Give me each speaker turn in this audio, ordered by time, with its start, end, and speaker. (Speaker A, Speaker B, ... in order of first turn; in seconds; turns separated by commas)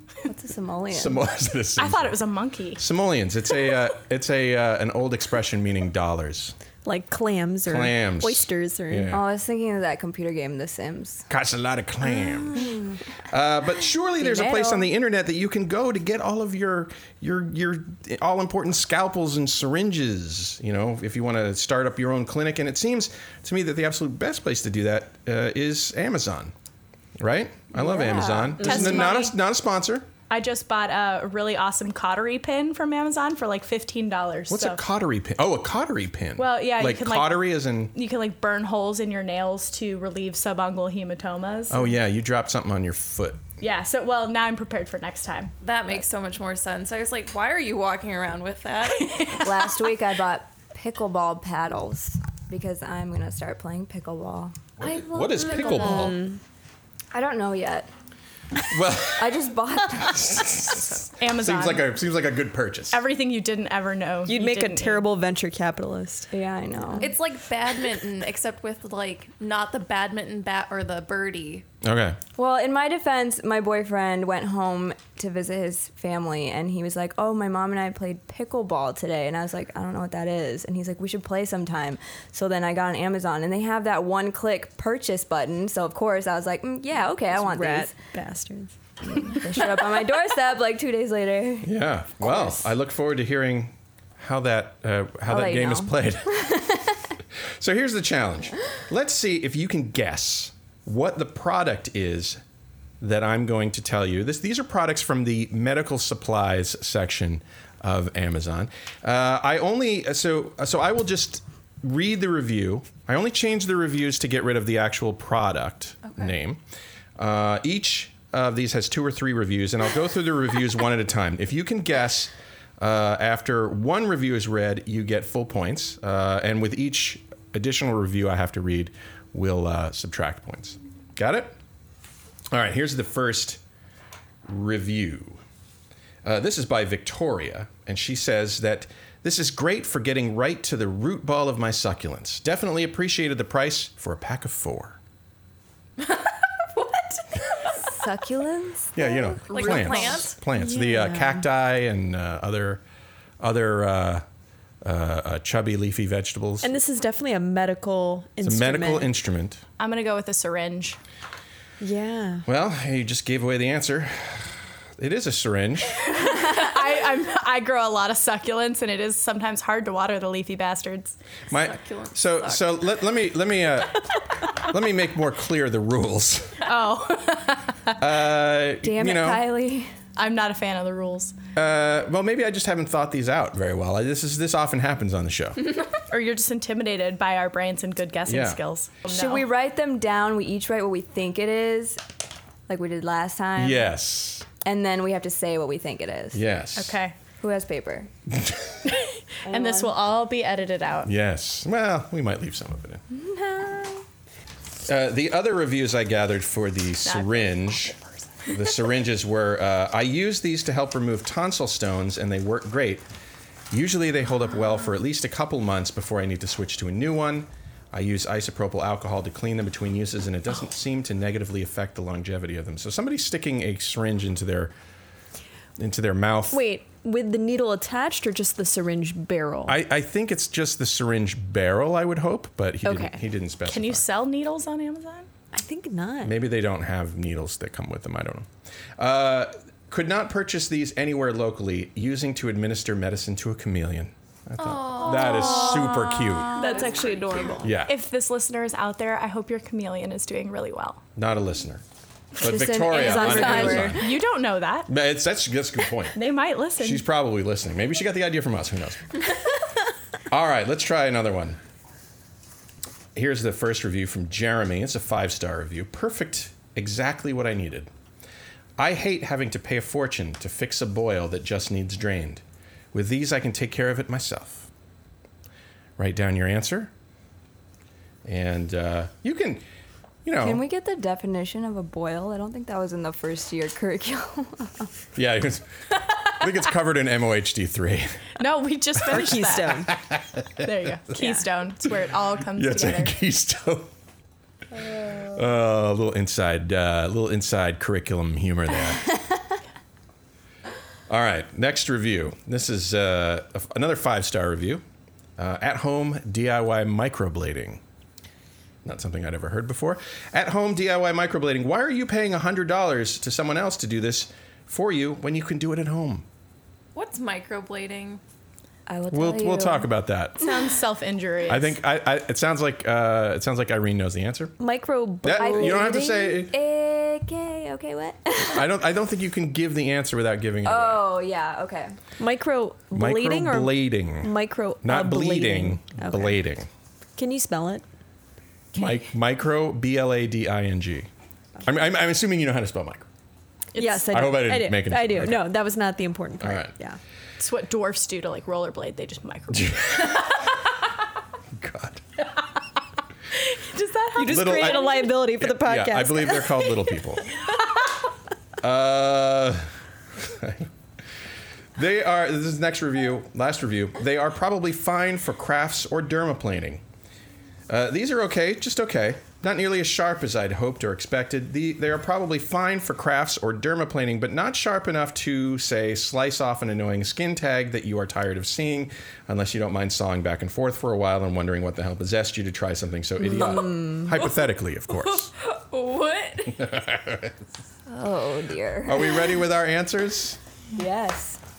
Speaker A: 0.2-1.2, Speaker B: 0.9-2.2, Speaker C: 1.8-2.8, Speaker B: 2.8-6.5, Speaker D: 6.8-9.2, Speaker B: 7.7-9.2, Speaker A: 9.1-11.2, Speaker B: 11.3-12.8, Speaker B: 13.3-26.5, Speaker A: 14.2-14.9, Speaker B: 27.2-30.1, Speaker A: 27.7-28.8, Speaker C: 28.6-29.3, Speaker C: 30.3-34.8, Speaker B: 34.5-37.9, Speaker C: 36.4-41.9, Speaker B: 41.7-43.4, Speaker C: 43.6-45.5, Speaker E: 45.6-49.4, Speaker A: 49.4-56.1, Speaker B: 54.8-56.2, Speaker D: 55.9-56.4, Speaker A: 57.1-57.9, Speaker B: 58.7-59.3, Speaker A: 59.1-60.4, Speaker B: 60.0-63.0, Speaker C: 60.7-62.0, Speaker C: 62.9-65.0, Speaker D: 64.2-66.3, Speaker A: 66.3-67.2, Speaker E: 67.0-71.6, Speaker B: 71.8-72.2, Speaker A: 72.4-87.9, Speaker D: 87.3-88.7, Speaker A: 89.0-91.8, Speaker B: 91.6-96.5, Speaker A: 95.3-97.0, Speaker B: 97.6-102.4, Speaker B: 103.0-116.6, Speaker E: 116.0-116.3, Speaker B: 117.2-131.6, Speaker B: 132.5-133.6, Speaker B: 134.5-135.4, Speaker B: 136.2-145.0, Speaker E: 146.0-147.2, Speaker A: 147.9-149.0, Speaker B: 148.9-152.8, Speaker E: 149.5-150.4, Speaker D: 149.5-151.4, Speaker B: 153.4-154.2, Speaker B: 154.8-156.7, Speaker D: 156.6-159.1, Speaker B: 158.4-159.6, Speaker C: 159.8-161.0, Speaker D: 161.8-162.4, Speaker B: 162.4-166.1, Speaker C: 166.2-171.2, Speaker B: 171.5-174.0, Speaker E: 171.5-172.8, Speaker B: 174.6-176.6, Speaker C: 176.6-177.9, Speaker B: 178.0-179.5, Speaker A: 178.8-179.9, Speaker C: 180.2-181.3, Speaker B: 181.5-185.7, Speaker C: 186.1-189.4, Speaker B: 188.3-188.6, Speaker A: 189.1-192.0, Speaker A: 192.7-193.9, Speaker B: 193.6-194.4, Speaker A: 194.6-196.4, Speaker B: 196.3-197.0, Speaker C: 196.8-197.1, Speaker A: 197.4-198.1, Speaker B: 198.3-198.8, Speaker C: 198.9-201.1, Speaker A: 199.4-199.9, Speaker B: 201.1-203.0, Speaker A: 203.1-204.0, Speaker B: 204.8-207.9, Speaker C: 207.1-208.0, Speaker B: 208.5-213.1, Speaker B: 213.7-224.7, Speaker B: 225.8-226.6, Speaker D: 226.5-229.8, Speaker B: 229.7-234.0, Speaker D: 232.8-233.2, Speaker C: 233.7-235.3, Speaker D: 235.5-236.4, Speaker B: 236.2-246.5, Speaker E: 244.6-247.7, Speaker D: 246.5-247.8, Speaker B: 247.6-247.9, Speaker C: 247.8-251.0, Speaker B: 251.2-251.8, Speaker B: 252.4-254.0, Speaker A: 252.4-254.0, Speaker D: 252.9-254.1, Speaker C: 253.2-254.9, Speaker B: 254.9-256.2, Speaker C: 256.1-257.0, Speaker B: 256.8-259.2, Speaker B: 260.3-261.6, Speaker B: 263.1-267.9, Speaker B: 268.8-272.4, Speaker B: 272.9-274.7, Speaker B: 276.0-276.9, Speaker B: 278.2-279.6, Speaker B: 280.2-280.6, Speaker A: 280.4-284.9, Speaker B: 285.1-285.7, Speaker B: 286.2-288.2, Speaker C: 288.4-289.8, Speaker D: 289.1-289.9, Speaker B: 289.9-290.6, Speaker C: 290.6-293.1, Speaker D: 291.1-291.4, Speaker B: 292.5-293.9, Speaker B: 295.3-299.1, Speaker B: 301.1-304.8, Speaker B: 305.4-307.8, Speaker B: 308.8-316.2, Speaker E: 316.9-318.2, Speaker A: 318.9-319.9, Speaker B: 319.1-320.5, Speaker C: 320.4-321.8, Speaker B: 321.5-324.6, Speaker D: 324.6-325.9, Speaker B: 325.2-326.5, Speaker A: 325.3-328.7, Speaker B: 328.5-331.0, Speaker A: 330.6-331.9, Speaker D: 332.2-336.4, Speaker B: 332.9-336.7, Speaker D: 337.2-337.8, Speaker B: 338.7-341.1, Speaker B: 341.6-343.1, Speaker C: 343.7-344.3, Speaker D: 343.8-347.0, Speaker B: 344.1-345.5, Speaker B: 346.4-346.7, Speaker C: 347.4-350.2, Speaker B: 349.5-350.3, Speaker B: 351.6-352.0, Speaker C: 353.3-355.1, Speaker D: 354.1-356.6, Speaker B: 354.2-357.3, Speaker B: 358.6-359.7, Speaker B: 360.2-360.7, Speaker B: 361.8-366.8, Speaker B: 367.7-385.3, Speaker A: 383.5-384.1, Speaker E: 384.9-386.7, Speaker B: 386.5-387.3, Speaker A: 387.9-389.3, Speaker B: 388.8-390.4, Speaker A: 390.7-391.4